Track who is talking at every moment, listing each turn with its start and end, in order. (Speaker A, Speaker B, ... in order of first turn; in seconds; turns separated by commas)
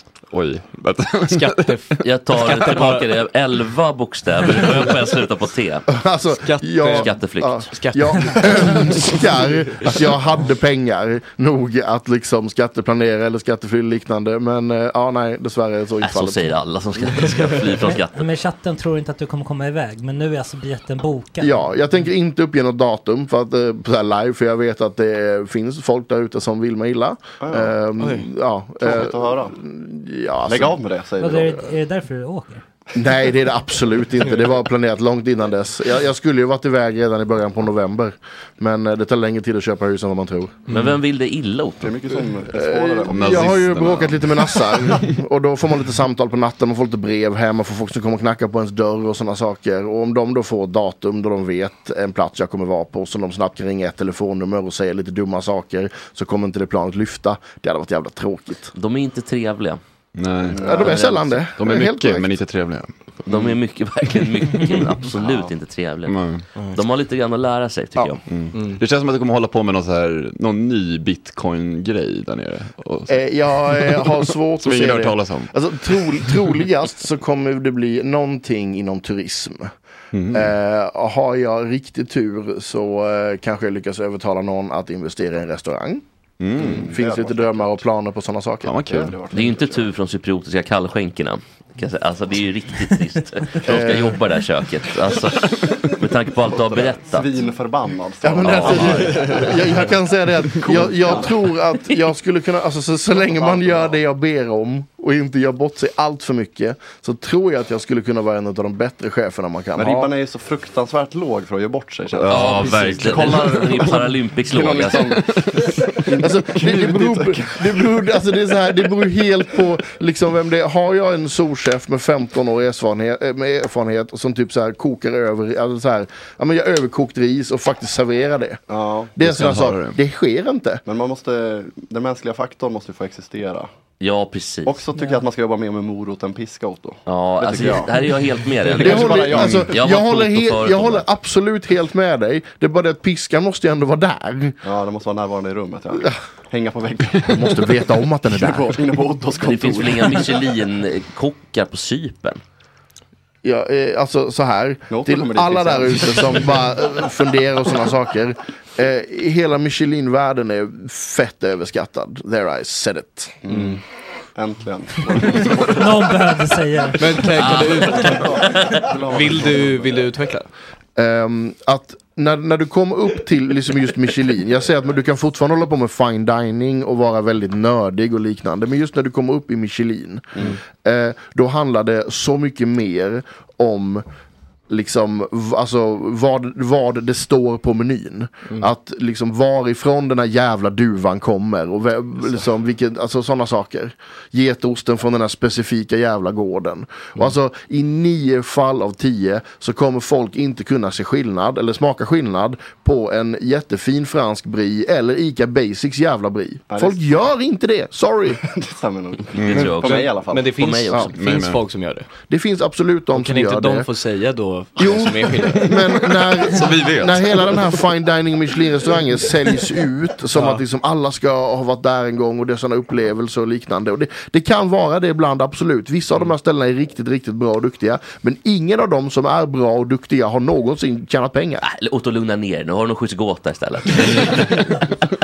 Speaker A: 0.3-2.0, Speaker B: 1.3-3.1, Speaker C: 2.0-5.9, Speaker D: 5.9-16.5, Speaker B: 6.4-7.2, Speaker C: 6.9-7.8, Speaker B: 7.7-9.2, Speaker C: 16.0-18.3, Speaker B: 17.4-17.7, Speaker E: 17.9-21.6, Speaker D: 21.4-30.8, Speaker F: 27.4-27.7, Speaker B: 28.0-28.3, Speaker F: 28.8-29.6, Speaker F: 30.4-31.7, Speaker E: 31.2-32.6, Speaker D: 32.9-40.6, Speaker C: 40.7-41.9, Speaker B: 40.7-41.0, Speaker F: 41.8-43.6, Speaker D: 42.5-58.7, Speaker A: 43.1-45.0, Speaker C: 58.7-59.8, Speaker A: 60.1-60.8, Speaker F: 60.5-61.0, Speaker D: 60.6-62.4, Speaker C: 60.7-61.4, Speaker A: 61.5-63.5, Speaker C: 63.2-68.2, Speaker A: 66.0-66.5, Speaker B: 66.5-66.8, Speaker A: 68.3-76.3, Speaker B: 68.5-68.8, Speaker D: 73.1-79.7, Speaker A: 80.1-80.5, Speaker D: 80.3-86.0, Speaker A: 86.4-86.9, Speaker F: 86.6-87.8, Speaker D: 86.7-88.8, Speaker A: 88.6-89.1, Speaker F: 88.8-89.8, Speaker C: 89.3-97.5, Speaker D: 93.6-94.2, Speaker F: 96.4-99.7, Speaker D: 98.2-110.1, Speaker C: 98.3-99.5, Speaker F: 100.7-101.3, Speaker F: 103.2-104.0, Speaker F: 109.8-118.1, Speaker A: 112.2-114.0, Speaker C: 112.2-115.2, Speaker A: 115.1-115.8, Speaker D: 116.2-128.6, Speaker F: 128.7-129.2, Speaker D: 129.2-130.8, Speaker A: 129.2-130.0, Speaker F: 130.8-133.7, Speaker C: 134.0-134.8, Speaker F: 134.7-139.8, Speaker C: 137.1-141.0, Speaker D: 138.8-144.6, Speaker F: 144.6-147.5, Speaker D: 147.3-148.8, Speaker F: 148.3-150.3, Speaker C: 149.4-152.4, Speaker D: 153.4-163.6, Speaker F: 154.9-156.6, Speaker F: 163.4-163.8, Speaker F: 164.3-166.4, Speaker E: 165.7-167.1, Speaker B: 167.0-168.4, Speaker F: 167.2-170.1, Speaker C: 167.3-167.8, Speaker B: 169.1-170.5, Speaker D: 170.9-184.0, Speaker D: 184.7-208.4, Speaker F: 206.7-207.2, Speaker F: 208.4-210.5, Speaker A: 209.4-209.7, Speaker C: 209.4-211.2, Speaker B: 209.5-212.1, Speaker A: 211.1-211.6, Speaker D: 212.3-213.9, Speaker B: 213.1-215.8, Speaker D: 214.8-231.6, Speaker A: 215.6-217.7, Speaker B: 220.3-220.6, Speaker C: 231.6-234.9